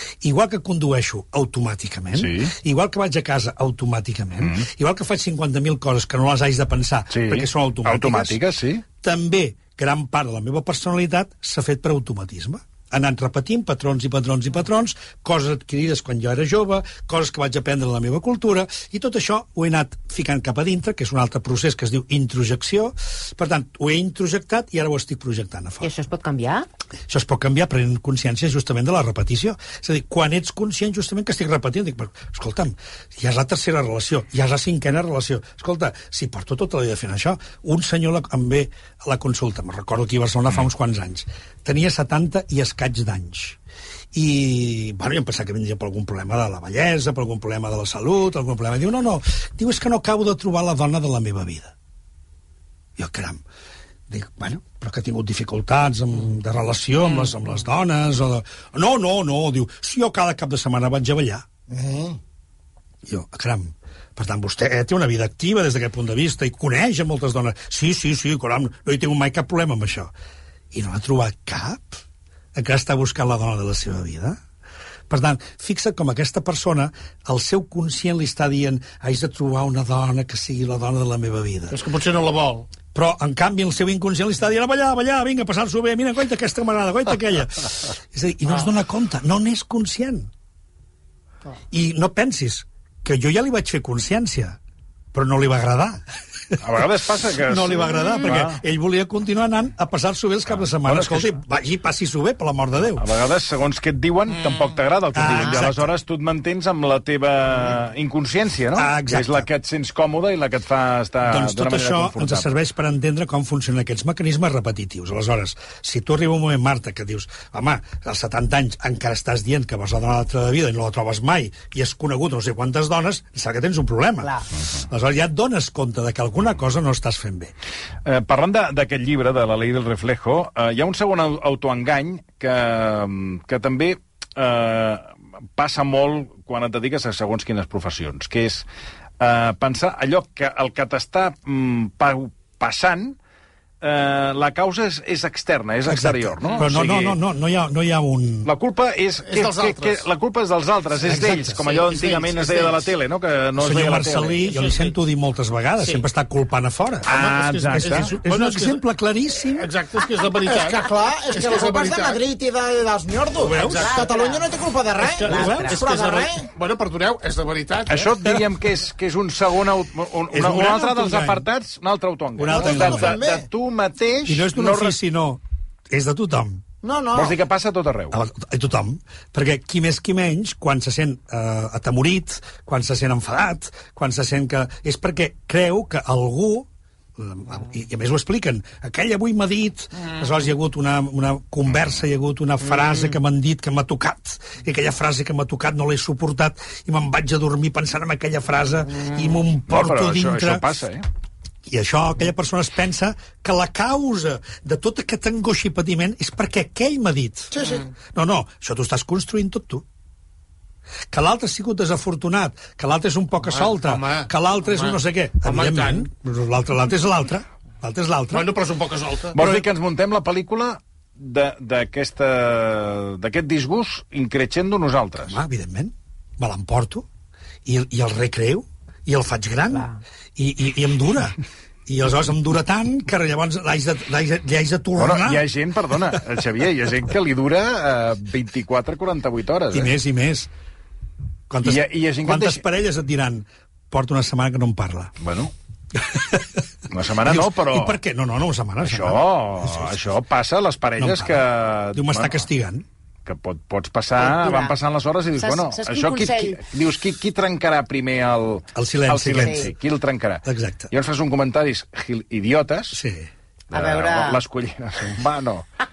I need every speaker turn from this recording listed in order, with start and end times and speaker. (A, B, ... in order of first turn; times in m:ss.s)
0:00.2-0:08.4 A
0:02.2-0:02.5 B
0:04.4-0:04.7 B
0:07.1-0:08.8 B
0:09.0-0:25.9 A
0:25.8-0:26.7 C
0:27.1-0:43.6 A
0:44.1-0:51.7 A
0:53.0-0:53.4 A
0:54.1-1:01.5 A
1:01.7-1:02.2 D
1:03.0-1:10.1 A
1:10.7-1:12.0 A
1:12.6-1:14.4 A
1:15.1-1:21.8 A
1:21.7-1:22.7 E
1:22.9-1:30.3 A
1:31.7-1:34.6 A
1:35.1-1:36.6 A
1:36.6-1:38.6 B
1:37.4-1:43.1 A
1:40.7-1:41.3 B
1:43.0-1:52.5 B
1:45.1-1:45.9 A
1:48.8-1:49.5 A
1:51.2-2:04.3 A
2:04.2-2:04.5 C
2:04.9-2:07.5 A
2:08.1-2:18.7 B
2:19.2-2:23.2 B
2:23.8-2:27.2 B
2:25.9-2:28.5 A
2:28.4-2:34.4 B
2:29.3-2:30.0 E
2:31.0-2:31.6 A
2:31.5-2:32.9 E
2:33.6-2:37.1 A
2:34.4-2:35.0 E
2:37.1-2:38.1 B
2:37.1-2:38.8 E
2:37.8-2:39.7 A
2:39.6-2:42.2 E
2:40.4-2:46.5 D
2:43.4-2:44.0 A
2:43.5-2:44.0 E
2:43.7-2:44.6 C
2:45.0-2:48.1 E
2:45.2-2:45.8 A
2:45.2-2:45.8 C
2:47.9-2:55.0 B
2:50.3-2:51.5 A
2:52.4-2:53.2 A
2:52.6-2:53.5 D
2:54.3-2:56.6 A
2:56.8-2:57.4 D
2:57.1-2:58.2 B
2:58.1-3:20.8 A
3:19.7-3:21.0 B
3:21.7-3:27.6 A
3:27.5-3:27.8 D
3:28.1-3:29.8 A
3:31.1-3:38.6 A
3:33.5-3:36.1 E
3:38.3-3:39.6 E
3:39.3-3:45.4 B
3:45.2-3:47.1 A
3:47.6-3:55.4 A
3:55.0-3:59.9 B
3:59.7-4:00.5 A
4:01.5-4:05.1 A
4:01.6-4:02.6 B
4:05.2-4:05.5 B
4:05.9-4:06.6 A
4:06.9-4:08.0 B
4:07.2-4:10.1 A
4:08.8-4:12.4 B
4:11.0-4:12.8 A
4:13.3-4:23.0 B
4:14.2-4:14.7 C
4:15.4-4:16.6 C
4:18.8-4:19.7 A
4:19.4-4:19.7 C
4:20.4-4:20.9 A
4:22.9-4:23.3 A
4:23.7-4:24.4 C
4:23.7-4:25.7 B